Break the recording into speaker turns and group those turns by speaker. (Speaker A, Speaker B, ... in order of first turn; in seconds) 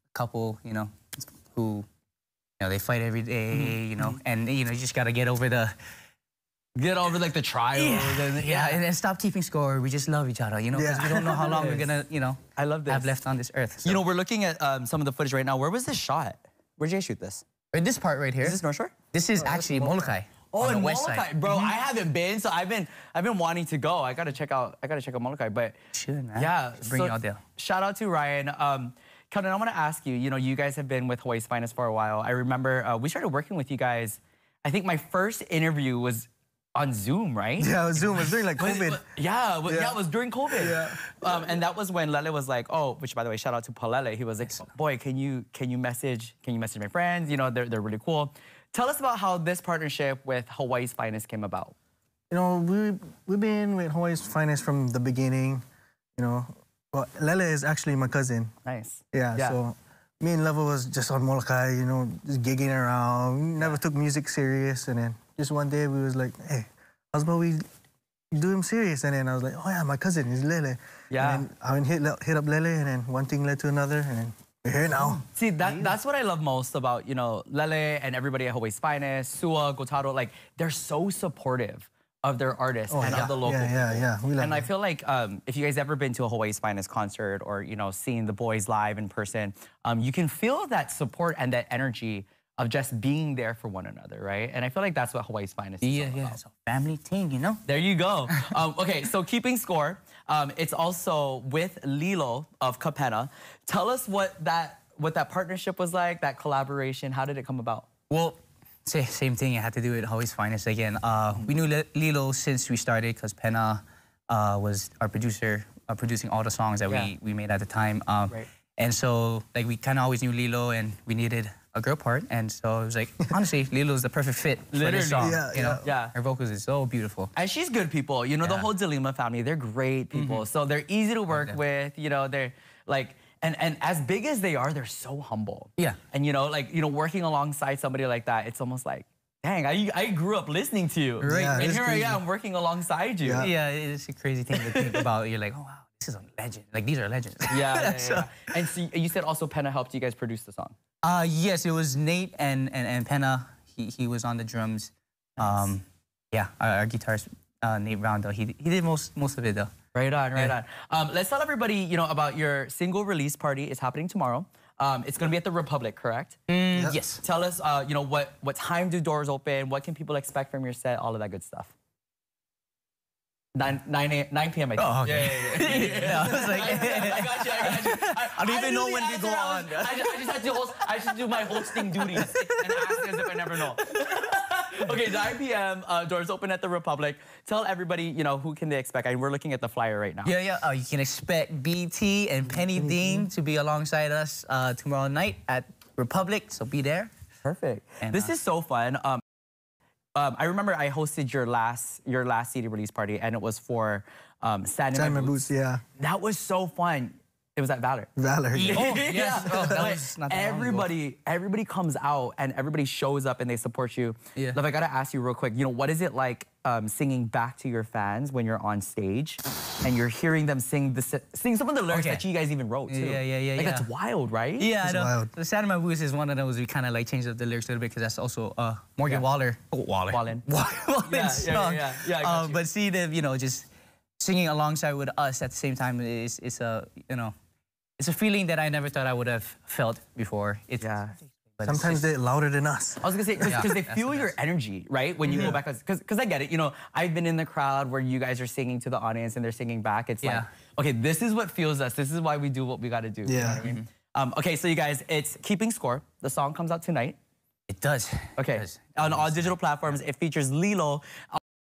Speaker A: 0.1-1.9, 2.6-5.8, 7.8-14.0, 17.7-18.6, 19.1-21.7, 25.9-27.4, 75.0-75.9, 95.8-97.6, 108.1-127.3, 128.4-128.7, 130.1-130.4, 131.3-131.6, 141.2-142.0, 143.4-148.4, 151.0-159.7, 166.5-167.2, 174.8-183.7, 190.2-197.1, 198.0-198.3, 208.5-210.9, 221.9-222.2, 222.9-223.9, 224.6-233.7, 234.2-237.3, 238.0-242.1, 243.4-244.3, 250.2-250.5, 257.7-259.6
Speaker B: 3.5-4.2, 6.8-8.8, 11.0-11.9, 12.6-13.1, 13.8-17.5, 18.4-19.9, 20.5-25.8, 26.4-37.8, 38.6-51.8, 58.6-59.6, 71.1-71.5, 75.3-96.4, 97.7-107.9, 124.7-126.2, 127.3-143.5, 144.6-145.1, 147.5-150.8, 159.9-166.4, 167.2-171.7, 173.6-190.3, 197.4-199.2, 200.2-208.1, 208.6-224.7, 230.1-230.4, 231.0-232.6, 240.8-241.2, 243.0-257.2, 258.4-261.4
Speaker C: 10.7-11.4, 37.6-39.0, 39.7-40.0, 40.5-41.3, 52.3-55.6, 56.2-58.5, 59.1-67.6, 68.3-75.2, 82.9-84.7, 125.2-125.9, 141.2-142.2, 143.2-143.5, 192.7-193.3, 204.9-205.8, 208.2-209.0, 209.5-209.9, 224.8-225.3, 241.6-243.6, 245.3-245.6, 253.2-253.7